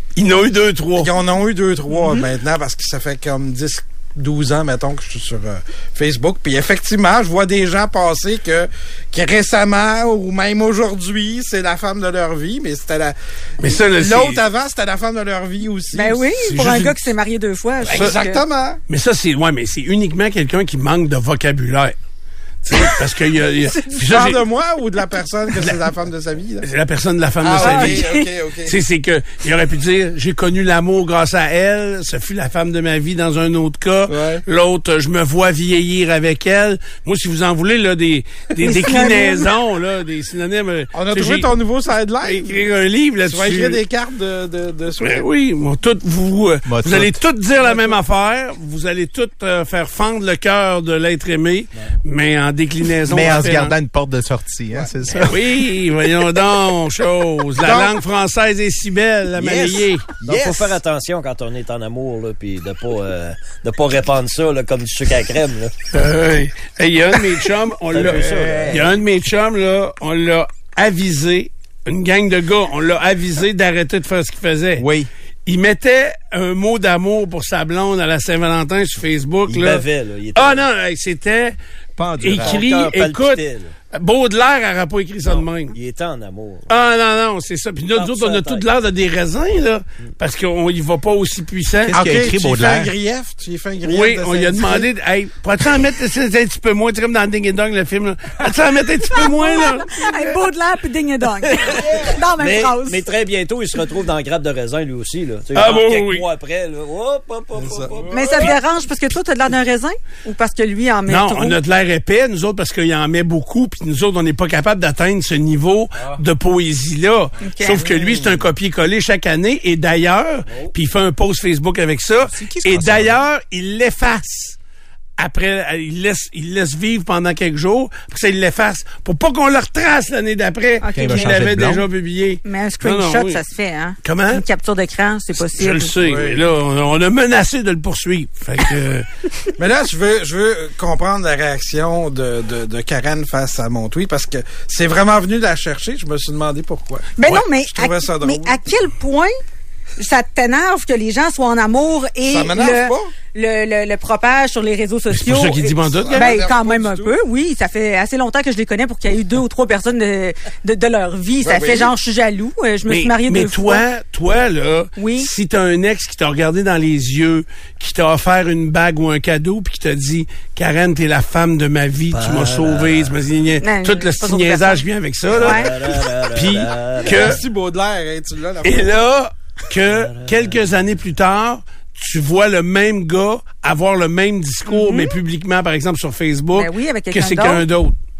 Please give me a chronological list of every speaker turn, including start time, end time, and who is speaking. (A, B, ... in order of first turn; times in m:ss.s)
0:00.2-0:01.1 A
0:00.9-0:16.3 B
0:13.6-0:14.4 A
0:15.9-0:18.4 C
0:16.4-0:17.0 A
0:17.8-0:18.8 B
0:18.9-0:21.9 A
0:22.6-0:24.4 A
0:23.8-0:26.7 B
0:26.6-0:28.1 A
0:27.4-0:28.8 B
0:27.6-0:28.3 C
0:28.6-0:41.5 A
0:34.1-0:34.4 B
0:38.6-0:39.5 C
0:40.9-0:42.6 B
0:42.2-0:43.8 A
0:43.2-0:45.2 B
0:45.0-0:53.7 A
0:46.6-0:47.2 D
0:47.6-0:48.0 B
0:53.0-0:55.4 D
0:55.2-1:00.1 A
0:57.6-0:57.9 B
0:59.4-1:00.6 D
1:00.2-1:05.7 E
1:05.9-1:14.8 A
1:07.9-1:08.8 E
1:08.0-1:08.9 D
1:14.8-1:15.1 D
1:15.4-1:21.6 A
1:19.5-1:20.6 E
1:22.0-1:22.6 D
1:22.2-1:23.4 A
1:22.4-1:23.7 E
1:23.9-1:25.7 A
1:25.3-1:26.7 E
1:26.7-1:32.0 A
1:27.9-1:28.6 E
1:31.9-1:32.9 D
1:31.9-1:34.9 B
1:33.8-1:40.3 A
1:39.1-1:43.0 C
1:41.6-1:48.5 E
1:45.5-1:46.2 A
1:48.1-1:51.6 C
1:51.1-2:04.6 A
1:57.4-1:57.9 C
1:57.8-1:58.4 B
2:00.5-2:00.7 E
2:02.2-2:03.2 D
2:05.2-2:13.4 A
2:10.8-2:11.3 C
2:10.9-2:11.8 D
2:12.4-2:15.9 C
2:14.0-2:14.4 A
2:15.4-2:19.0 A
2:16.0-2:16.4 B
2:19.6-2:27.1 B
2:27.2-2:29.3 C
2:27.7-2:28.6 B
2:30.0-2:43.8 C
2:32.3-2:33.1 B
2:35.1-2:36.3 A
2:35.8-2:37.2 B
2:41.4-2:41.9 B
2:42.9-2:57.4 A
2:45.0-2:45.3 C
2:52.1-2:53.1 E
2:53.6-2:54.8 C
2:55.3-2:57.4 E
2:55.4-2:55.7 C
2:57.1-2:59.0 B
2:58.6-3:07.9 A
2:59.9-3:00.8 E
3:04.7-3:05.1 C
3:06.5-3:07.6 C